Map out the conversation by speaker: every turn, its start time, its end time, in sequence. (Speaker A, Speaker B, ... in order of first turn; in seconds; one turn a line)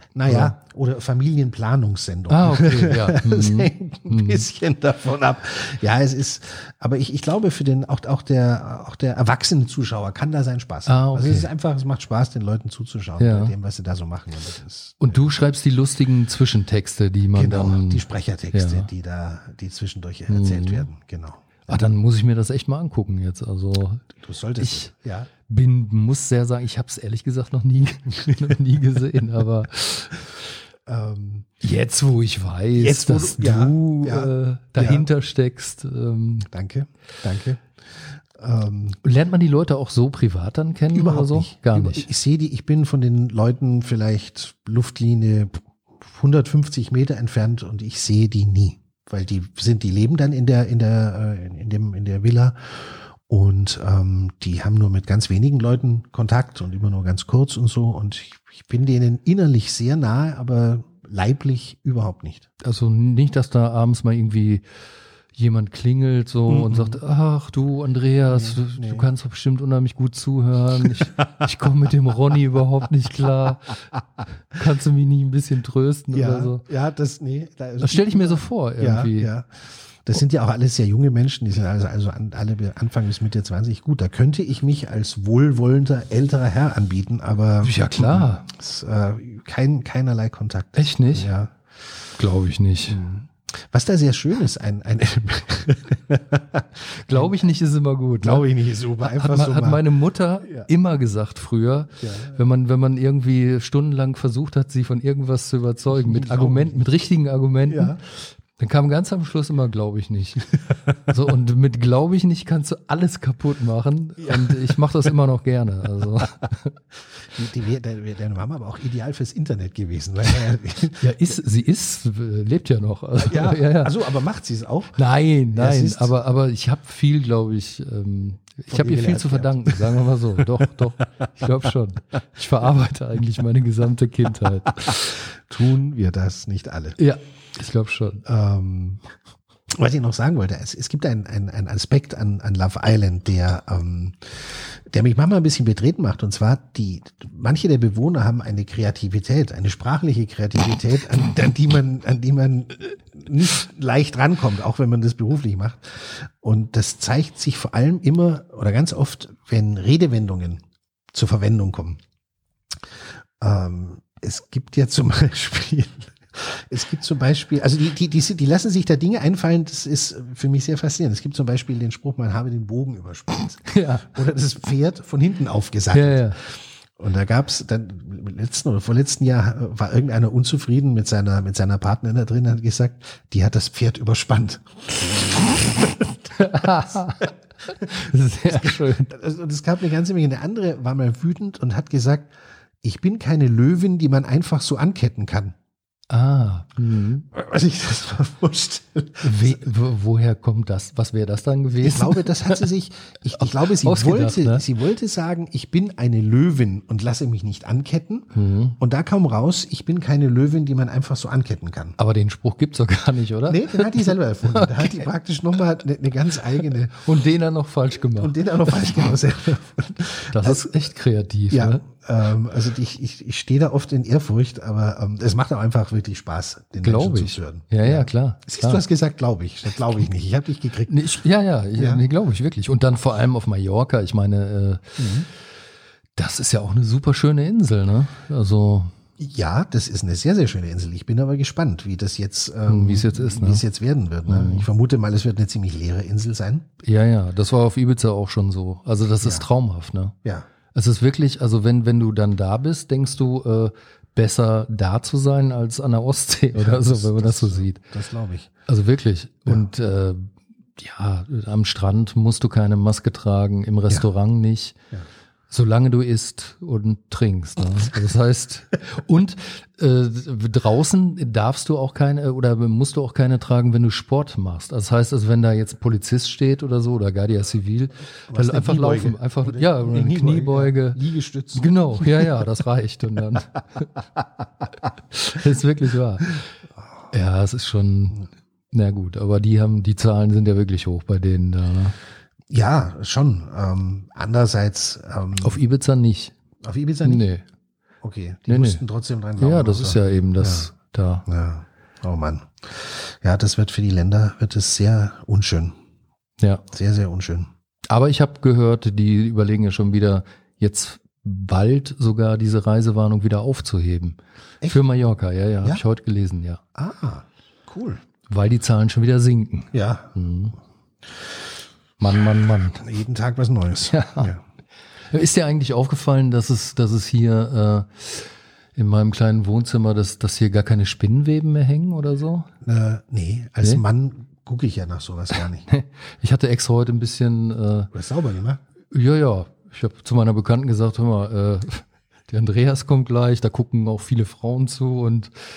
Speaker A: 0.1-15.2
Speaker B: 0.2-0.5
Speaker B: 2.3-4.4
Speaker B: 10.8-11.5
Speaker B: 13.2-13.5
Speaker B: 15.0-18.9
Speaker A: 17.3-21.9
Speaker B: 20.3-20.9
Speaker B: 21.7-24.9
Speaker A: 24.1-25.3
Speaker B: 25.5-30.2
Speaker A: 30.9-31.5
Speaker B: 31.6-36.5
Speaker A: 32.8-35.1
Speaker A: 36.5-37.6
Speaker A: 38.3-39.0
Speaker B: 39.0-42.1
Speaker A: 40.9-62.4
Speaker B: 62.6-64.6
Speaker B: 65.3-73.8
Speaker A: 66.5-67.0
Speaker A: 68.3-69.1
Speaker A: 71.0-71.2
Speaker B: 74.5-76.6
Speaker A: 76.1-79.5
Speaker B: 77.8-79.3
Speaker A: 80.0-91.5
Speaker B: 87.6-88.5
Speaker B: 90.8-91.3
Speaker B: 92.2-93.0
Speaker A: 92.9-97.4
Speaker B: 97.0-98.5
Speaker A: 98.2-99.8
Speaker B: 99.0-108.0
Speaker A: 102.0-102.4
Speaker A: 106.0-106.8
Speaker A: 107.7-108.0
Speaker B: 108.5-116.7
Speaker A: 114.2-114.8
Speaker A: 117.2-121.3
Speaker B: 121.0-123.9
Speaker A: 123.2-125.0
Speaker B: 125.0-135.1
Speaker A: 125.5-126.1
Speaker A: 128.7-130.7
Speaker A: 131.4-131.7
Speaker A: 134.7-137.0
Speaker B: 137.0-138.2
Speaker A: 138.2-139.0
Speaker A: 139.7-162.0
Speaker A: 163.4-187.3
Speaker B: 173.7-174.2
Speaker B: 175.9-176.4
Speaker B: 186.3-189.1
Speaker A: 187.8-195.5
Speaker B: 196.1-197.3
Speaker A: 197.3-199.6
Speaker B: 199.2-202.6
Speaker A: 201.8-211.9
Speaker B: 203.4-204.6
Speaker B: 208.3-208.8
Speaker B: 212.0-215.0
Speaker A: 213.5-217.0
Speaker B: 216.9-218.7
Speaker A: 218.1-220.9
Speaker B: 220.3-221.8
Speaker A: 221.5-231.0
Speaker B: 226.8-228.8
Speaker B: 230.9-235.1
Speaker A: 231.8-232.0
Speaker A: 235.0-235.3
Speaker B: 236.2-238.9
Speaker A: 239.2-246.7
Speaker B: 242.7-243.6
Speaker B: 244.2-244.7
Speaker B: 246.8-250.1
Speaker B: 250.7-257.8
Speaker A: 256.5-258.5
Speaker B: 258.7-264.8
Speaker B: 265.5-281.0
Speaker A: 278.3-282.3
Speaker B: 281.5-283.9
Speaker B: 285.1-286.4
Speaker B: 287.1-291.9
Speaker A: 292.5-295.6
Speaker B: 295.4-296.3
Speaker A: 296.6-297.2
Speaker B: 297.0-297.4
Speaker A: 298.0-300.7
Speaker B: 298.5-298.8
Speaker B: 299.4-301.2
Speaker A: 301.2-305.7
Speaker A: 306.7-307.5
Speaker B: 307.9-316.6
Speaker A: 316.7-318.0
Speaker B: 318.3-320.5
Speaker A: 319.7-320.1
Speaker B: 322.0-322.8
Speaker A: 322.8-324.4
Speaker B: 323.9-324.3
Speaker B: 325.1-332.5
Speaker A: 332.6-335.6
Speaker B: 335.7-337.9
Speaker A: 337.9-338.6
Speaker B: 338.9-345.3